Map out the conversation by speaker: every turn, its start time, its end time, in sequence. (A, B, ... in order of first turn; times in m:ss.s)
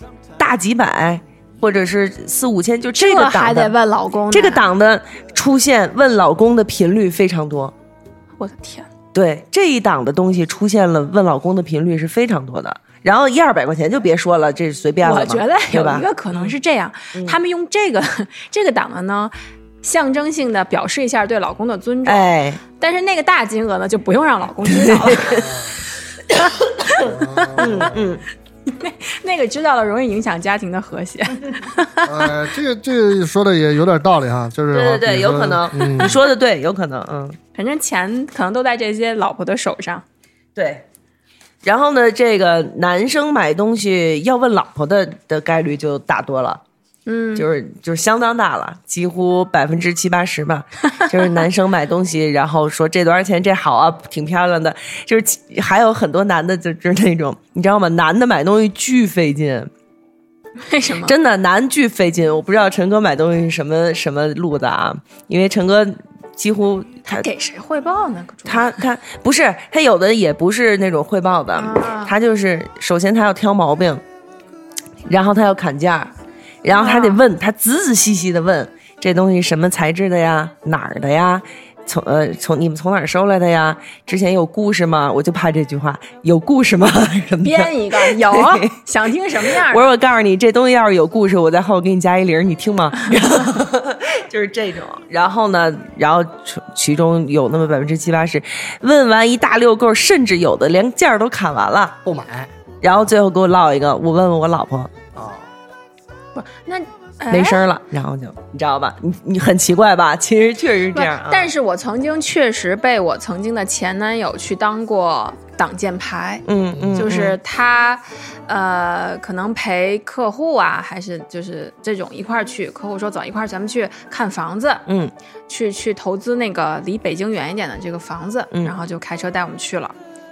0:00.4-0:03.7 A
0:03.0-0:04.6 B
0:04.3-0:07.7 A
0:08.4-0:08.9 B
0:09.1-0:16.5 A
0:15.0-0:25.6 B
0:17.1-0:17.4 A
0:22.0-0:22.6 A
0:24.6-0:25.5 A
0:25.4-0:25.7 C
0:27.0-0:28.1 C
0:27.5-0:28.2 A
0:28.7-0:32.3 B
0:32.0-0:36.2 C
0:34.7-0:37.4 A
0:37.5-0:40.0 B
0:40.5-0:40.8 A
0:41.6-0:46.6 A
0:47.0-0:47.4 B
0:47.4-0:59.7 A
0:51.0-0:51.2 B
1:00.6-1:01.1 B
1:01.0-1:07.2 A
1:07.1-1:08.8 B
1:08.4-1:14.0 A
1:11.5-1:12.1 B
1:15.1-1:16.1 A
1:16.6-1:28.8 A
1:16.7-1:17.2 B
1:27.4-1:29.9 B
1:29.5-1:42.0 A
1:42.0-1:42.5 C
1:42.8-1:44.9 A
1:45.1-1:45.5 C
1:46.4-1:47.6 B
1:47.3-1:51.5 A
1:50.9-1:56.4 B
1:56.5-1:57.4 A
1:56.7-1:57.1 C
1:57.0-2:04.8 B
2:04.9-2:05.1 A
2:05.5-2:09.9 B